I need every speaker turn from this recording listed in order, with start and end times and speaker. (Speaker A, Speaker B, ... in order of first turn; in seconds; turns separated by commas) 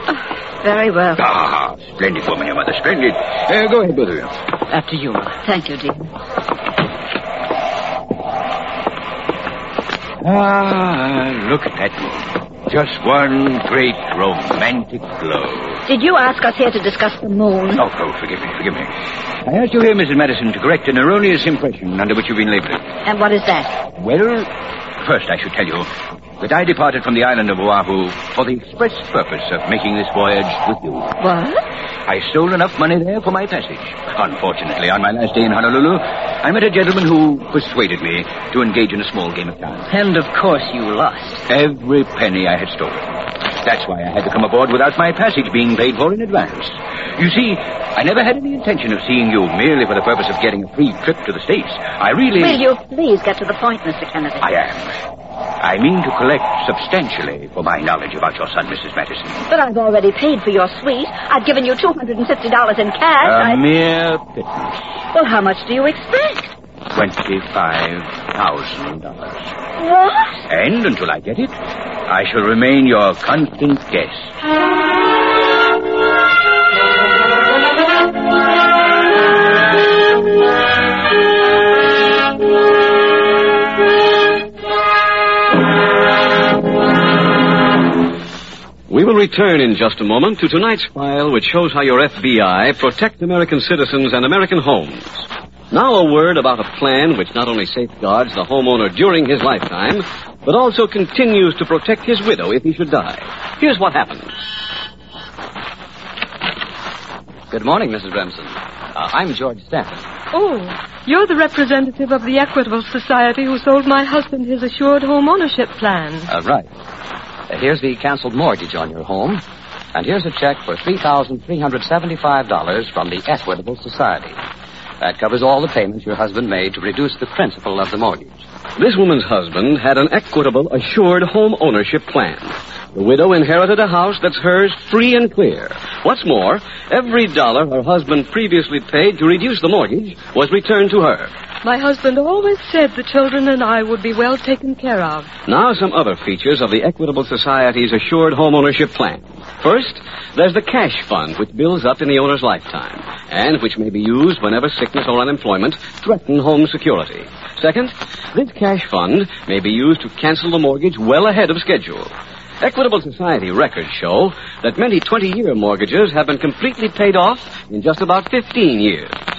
Speaker A: 0.6-1.2, Speaker B: 1.2-4.3, Speaker C: 4.7-5.4, Speaker A: 5.4-6.1, Speaker B: 10.2-15.8, Speaker A: 15.8-17.8, Speaker B: 17.8-18.9, Speaker B: 19.4-22.8, Speaker A: 23.0-23.7, Speaker B: 24.0-24.5, Speaker B: 25.0-25.9, Speaker B: 26.4-31.1, Speaker A: 31.2-31.6, Speaker B: 32.1-39.9, Speaker C: 39.9-41.4, Speaker B: 41.5-43.0, Speaker B: 43.6-52.6, Speaker A: 52.4-54.5, Speaker B: 54.4-54.9, Speaker B: 55.6-59.4, Speaker A: 59.5-63.6, Speaker B: 63.2-64.8, Speaker A: 65.1-66.5, Speaker B: 66.9-69.5, Speaker A: 69.8-70.4, Speaker B: 70.5-71.5, Speaker B: 72.1-74.3, Speaker D: 88.9-104.4, Speaker E: 107.5-110.0, Speaker F: 110.3-116.3, Speaker E: 116.3-116.7, Speaker E: 117.5-119.4, Speaker E: 119.9-124.4, Speaker E: 125.0-128.4, Speaker D: 128.8-141.3, Speaker F: 141.6-145.3, Speaker D: 145.5-169.1